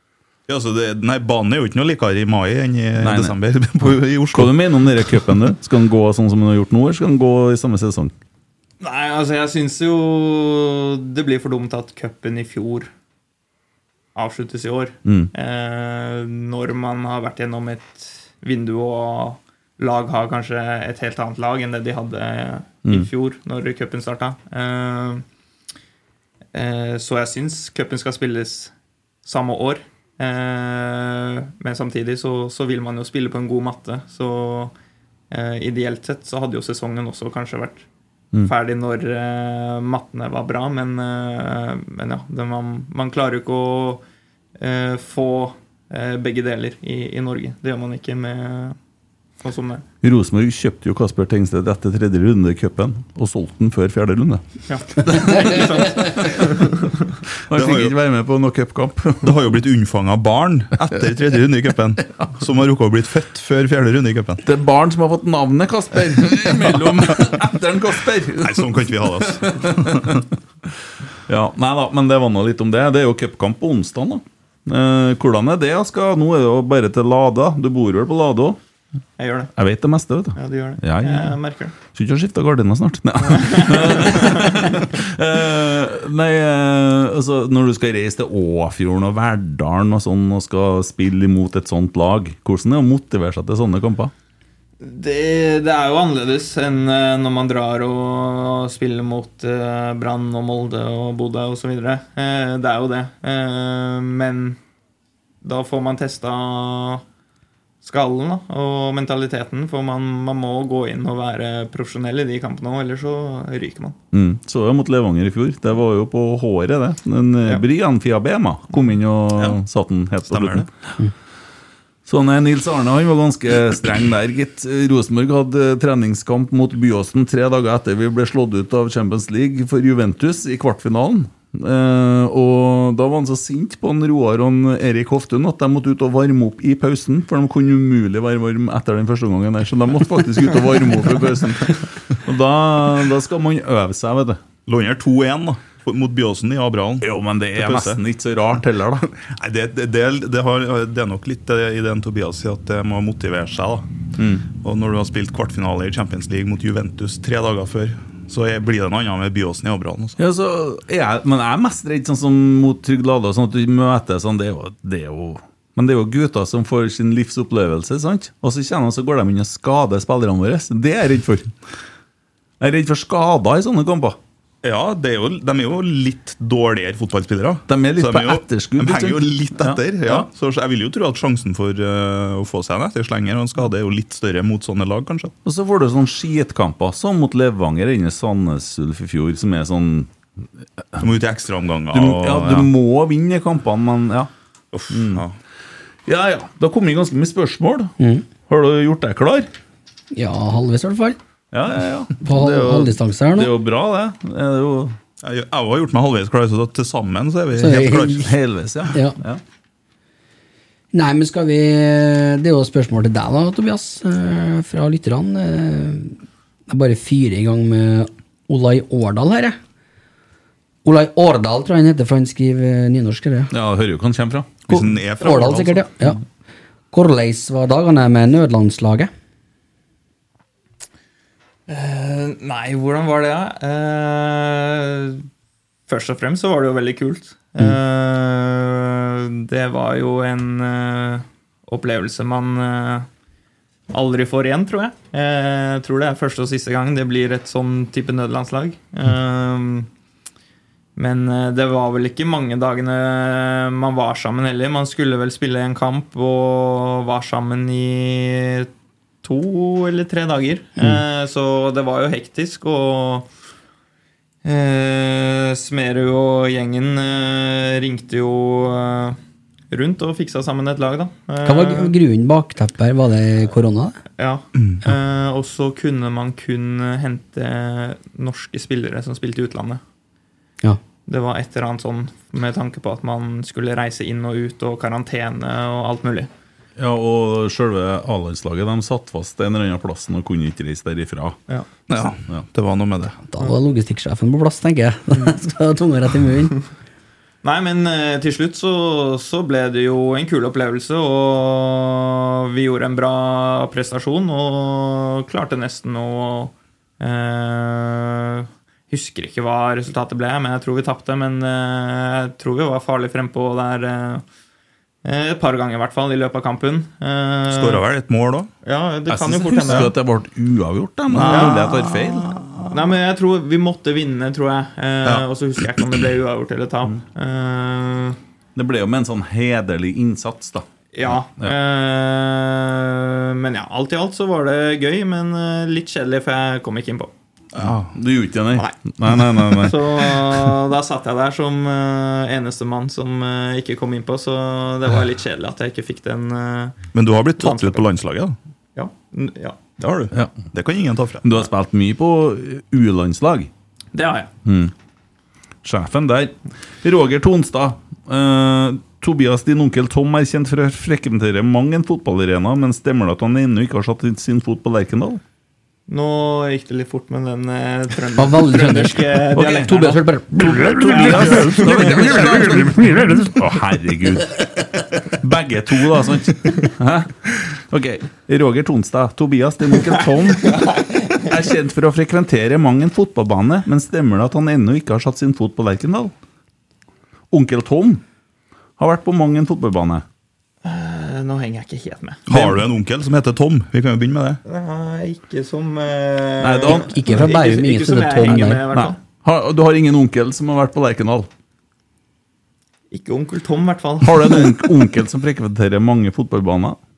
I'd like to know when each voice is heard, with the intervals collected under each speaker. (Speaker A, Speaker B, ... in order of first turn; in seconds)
Speaker A: 0.5-4.6, 57.5-57.9, 59.2-64.4, 68.4-70.2, 120.2-120.7, 144.7-148.0, 149.1-160.2, 174.6-185.3, 191.0-192.7, 194.7-195.3, 205.2-208.3, 224.7-225.9, 291.9-293.2, 317.5-318.5, 321.1-322.9, 337.5-337.9, 346.9-348.3, 349.8-351.4, 392.3-394.4
Speaker B: 3.0-3.4, 4.3-8.1, 15.0-15.3, 50.0-54.4, 55.0-56.3, 57.5-59.3, 64.4-68.8, 69.3-70.0, 71.3-78.6, 79.5-94.1, 114.1-120.7, 122.0-144.4, 147.0-149.1, 154.2-154.4, 160.2-171.5, 172.6-174.2, 177.7-180.3, 185.4-190.1, 191.9-194.3, 194.9-195.2, 196.1-199.5, 201.5-204.9, 208.2-209.4, 223.5-224.6, 286.8-291.4, 319.1-322.3, 328.6-331.6, 337.9-340.2, 350.1-350.5, 351.2-353.5, 354.4-354.7, 355.6-365.2, 369.3-369.8, 370.4-386.1, 387.3-388.0, 388.8-390.0, 396.4-397.0, 398.7-401.3, 404.0-406.8
Speaker C: 8.8-12.9, 14.1-25.2, 26.5-28.7, 29.2-34.7, 35.3-37.9, 38.4-44.0, 44.6-48.8, 49.4-49.8, 54.7-57.0, 79.2-79.5, 80.3-81.7, 83.2-84.8, 94.8-104.6, 105.4-107.0, 107.8-114.0, 231.7-235.2, 235.9-243.1, 243.9-249.9, 251.0-258.7, 259.2-263.3, 264.4-269.2, 269.7-271.9, 274.2-279.8, 281.1-286.3, 297.4-314.2, 315.0-317.8, 318.6-319.9, 321.2-321.7, 322.7-328.2, 330.9-337.1, 339.5-346.8, 347.4-347.8, 348.8-349.7, 353.9-354.3, 365.9-372.7, 390.6-392.6, 394.4-399.0, 402.9-404.6
Speaker D: 198.0-198.2, 200.1-201.2, 202.2-203.5, 207.5-208.3, 208.9-209.2, 210.9-216.2, 216.7-219.6, 220.8-223.5, 224.7-226.2, 226.9-229.1, 271.4-274.0, 293.3-296.6, 368.2-373.1, 396.6-398.6